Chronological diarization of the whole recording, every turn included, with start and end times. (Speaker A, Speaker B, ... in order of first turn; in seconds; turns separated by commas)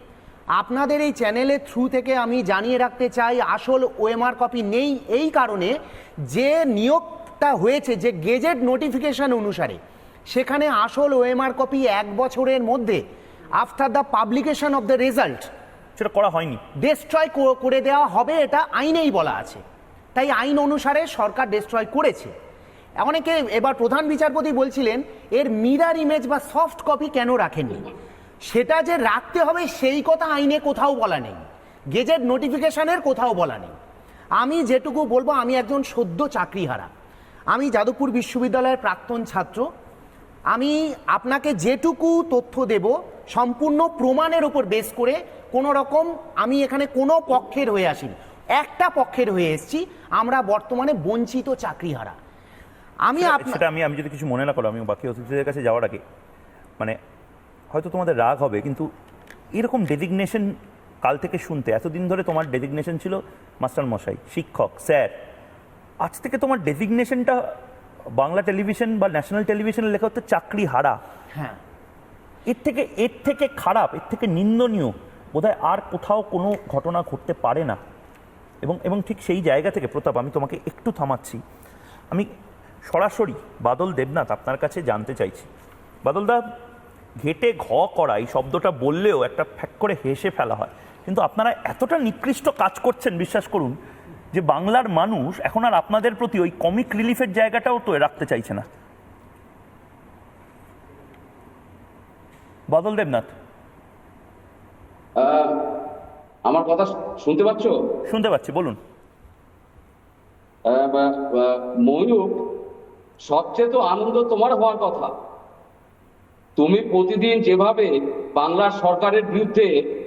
Speaker A: 0.6-5.8, Speaker A: 6.3-9.8, Speaker A: 10.3-13.0, Speaker A: 13.6-15.5, Speaker B: 16.0-16.6, Speaker A: 16.8-19.6, Speaker A: 20.1-22.3, Speaker A: 23.0-27.9, Speaker A: 28.5-33.8, Speaker A: 34.4-36.9, Speaker A: 37.5-39.7, Speaker A: 40.5-52.2, Speaker A: 53.0-53.6, Speaker B: 53.2-56.0, Speaker B: 57.7-58.9, Speaker B: 59.5-60.5, Speaker B: 61.0-65.2, Speaker B: 66.0-67.4, Speaker B: 68.2-71.0, Speaker A: 71.3-71.6, Speaker B: 72.5-77.8, Speaker B: 78.6-81.4, Speaker B: 82.9-85.5, Speaker B: 86.0-86.4, Speaker B: 87.2-93.8, Speaker B: 94.3-98.7, Speaker B: 102.7-103.3, Speaker C: 105.2-105.6, Speaker C: 106.5-107.8, Speaker B: 108.1-108.8, Speaker C: 110.7-112.5, Speaker C: 113.2-115.1, Speaker C: 116.6-119.7